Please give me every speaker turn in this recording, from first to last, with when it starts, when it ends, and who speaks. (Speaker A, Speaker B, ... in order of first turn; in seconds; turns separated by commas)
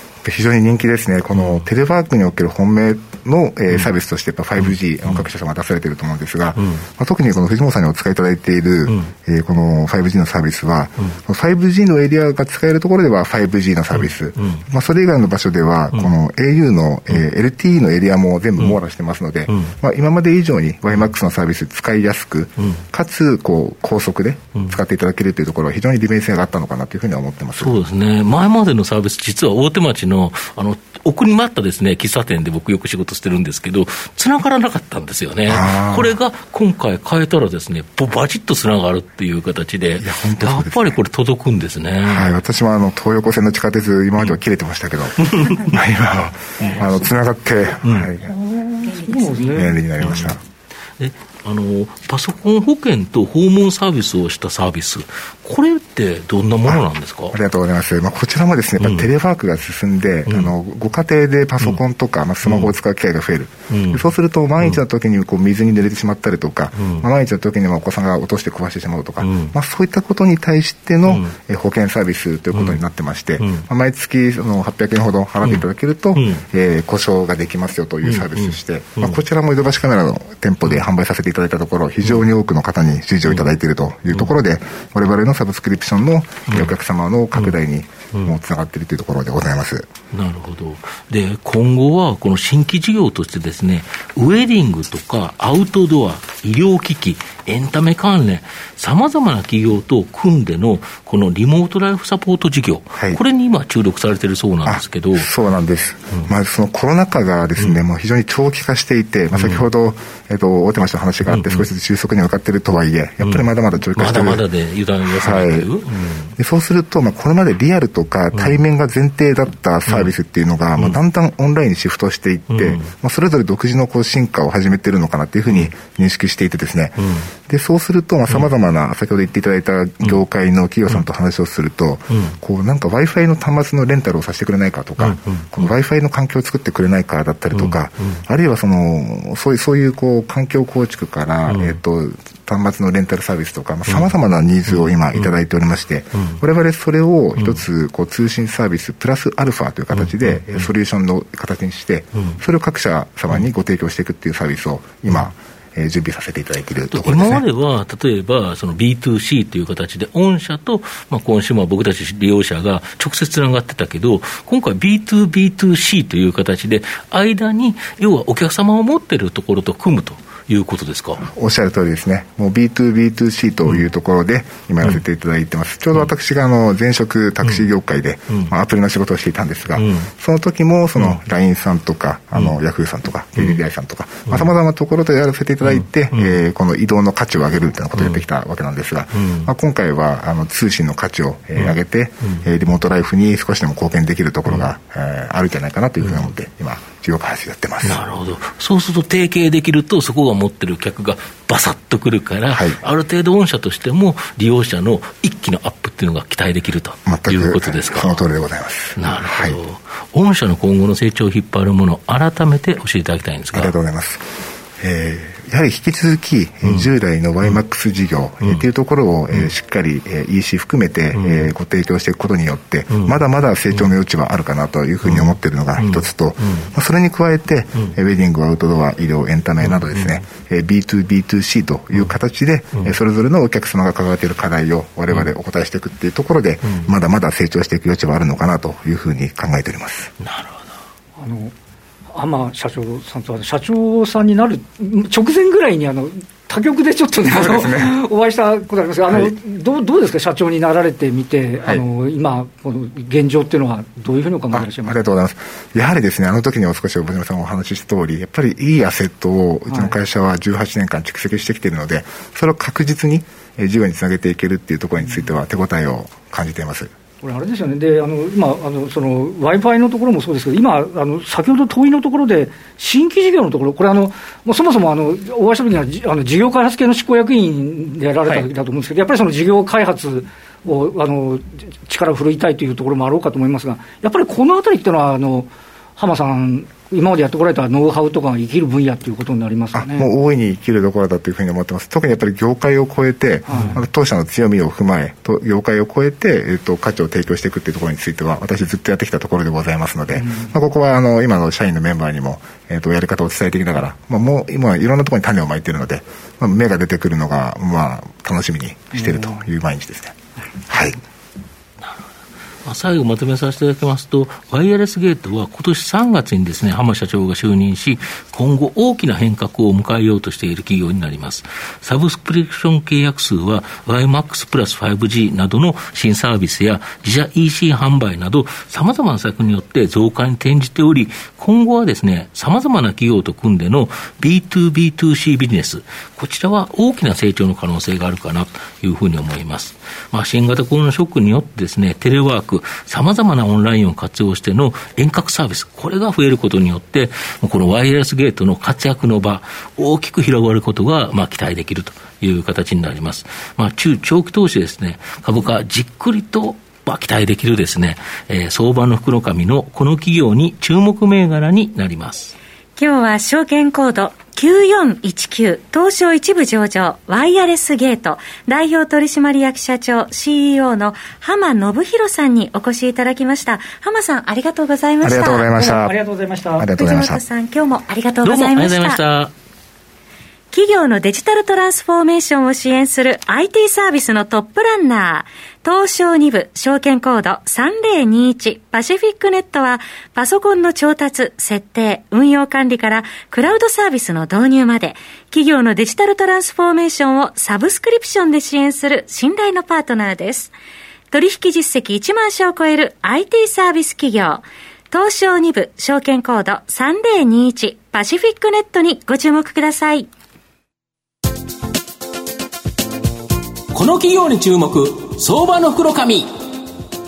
Speaker A: 0.2-27.8, Speaker B: 1.3-1.6, Speaker B: 4.6-5.2, Speaker B: 6.5-6.8, Speaker B: 13.9-14.6, Speaker B: 19.5-19.7, Speaker B: 27.6-42.3, Speaker A: 35.5-36.1, Speaker A: 40.0-41.0, Speaker A: 42.0-48.3, Speaker B: 45.2-45.8, Speaker B: 46.6-47.1, Speaker B: 47.8-48.1, Speaker C: 48.2-49.8, Speaker D: 48.9-49.4, Speaker A: 49.5-50.4, Speaker B: 50.0-50.3, Speaker B: 51.0-57.4, Speaker A: 56.6-89.9, Speaker B: 58.8-59.1, Speaker B: 60.3-60.5, Speaker B: 62.4-62.7, Speaker B: 63.7-64.8, Speaker B: 66.7-67.1, Speaker B: 69.2-69.5, Speaker B: 72.5-72.8, Speaker B: 73.4-73.6, Speaker B: 75.4-76.4, Speaker B: 78.0-79.2, Speaker B: 83.2-83.5, Speaker B: 86.5-86.7, Speaker B: 90.1-105.3, Speaker A: 104.6-114.4, Speaker B: 109.3-109.7, Speaker B: 111.2-111.7, Speaker B: 113.2-116.3, Speaker A: 115.1-115.7, Speaker A: 116.4-157.4, Speaker B: 118.3-118.6, Speaker B: 119.9-120.1, Speaker B: 122.5-122.9, Speaker B: 127.0-127.3, Speaker B: 135.0-135.7, Speaker B: 137.5-138.2, Speaker B: 141.4-141.8, Speaker B: 143.9-144.1, Speaker B: 144.7-145.3, Speaker B: 147.4-147.6, Speaker B: 149.9-150.7, Speaker B: 152.1-152.4, Speaker B: 156.9-171.2, Speaker A: 171.2-198.0, Speaker B: 177.4-177.7, Speaker B: 179.8-180.1, Speaker B: 180.9-181.2, Speaker B: 184.3-184.5, Speaker B: 185.6-186.4, Speaker B: 187.9-188.2, Speaker B: 189.1-189.5, Speaker B: 191.6-192.4, Speaker B: 196.0-196.3, Speaker B: 197.8-208.3, Speaker A: 202.5-202.8, Speaker A: 207.1-209.6, Speaker B: 208.9-213.7, Speaker A: 213.5-214.2, Speaker A: 214.8-240.1, Speaker B: 221.1-221.5, Speaker B: 222.9-223.2, Speaker B: 225.0-226.7, Speaker B: 229.6-230.2, Speaker B: 236.7-236.9, Speaker B: 240.2-240.7, Speaker C: 241.2-241.5, Speaker C: 242.1-255.0, Speaker A: 247.3-247.9, Speaker A: 254.5-266.9, Speaker C: 259.7-259.9, Speaker C: 265.0-265.3, Speaker C: 267.2-290.1, Speaker A: 289.7-310.1, Speaker C: 293.5-293.9, Speaker C: 300.1-300.5, Speaker C: 308.9-309.4, Speaker A: 310.7-311.0, Speaker B: 312.6-362.3, Speaker D: 362.8-375.5, Speaker A: 375.0-375.9, Speaker C: 375.6-376.6, Speaker A: 376.6-377.2, Speaker D: 376.7-379.0, Speaker B: 378.2-379.3, Speaker D: 380.5-400.5, Speaker D: 401.1-410.1, Speaker E: 413.7-416.3